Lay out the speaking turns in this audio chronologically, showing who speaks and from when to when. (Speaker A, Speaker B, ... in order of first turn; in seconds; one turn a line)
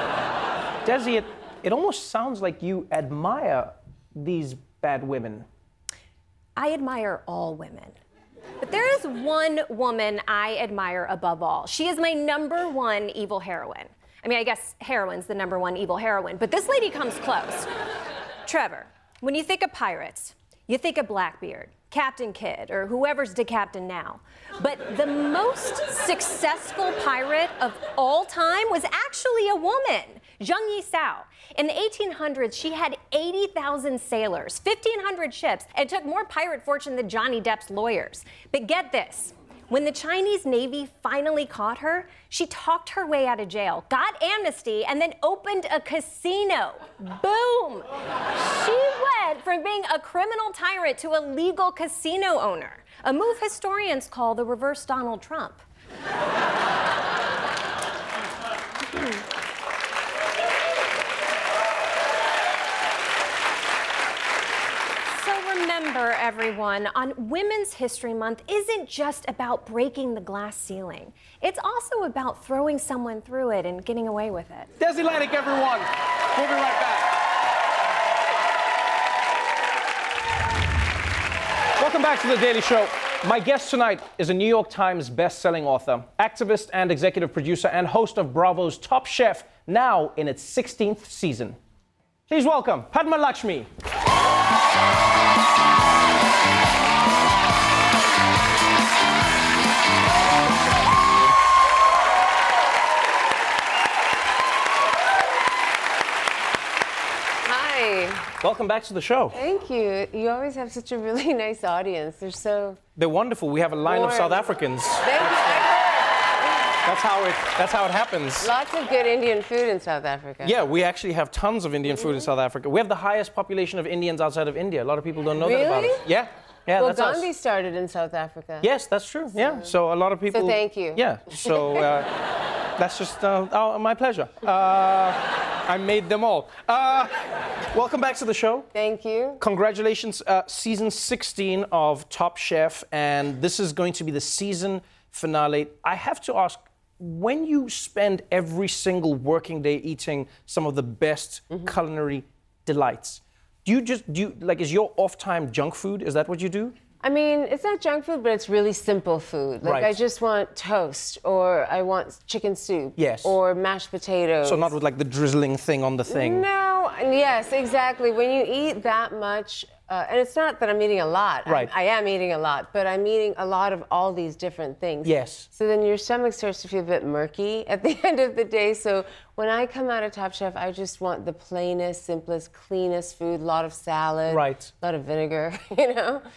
Speaker A: 0.8-5.5
Speaker B: 6.6-8.0
Speaker B: 8.6-17.7
Speaker B: 18.4-55.6
Speaker B: 65.1-74.7
Speaker A: 74.8-77.1
Speaker A: 81.8-91.6
Speaker A: 92.3-93.7
Speaker C: 107.4-108.3
Speaker A: 108.4-109.4
Speaker C: 109.3-112.8
Speaker A: 113.0-115.7
Speaker C: 113.8-116.0
Speaker A: 116.8-118.5
Speaker C: 118.4-120.6
Speaker A: 120.4-127.3
Speaker C: 122.0-122.2
Speaker C: 125.4-126.0
Speaker C: 126.8-128.7
Speaker A: 128.6-132.1
Speaker C: 129.3-129.7
Speaker C: 130.3-131.8
Speaker A: 132.8-137.1
Speaker A: 137.7-138.7
Speaker C: 138.7-139.4
Speaker A: 139.4-156.7
Speaker C: 157.0-164.7
Speaker A: 159.6-159.9
Speaker A: 163.0-163.3
Speaker A: 164.4-166.4
Speaker C: 166.1-186.2
Speaker A: 171.4-171.7
Speaker A: 175.0-175.5
Speaker A: 184.3-184.7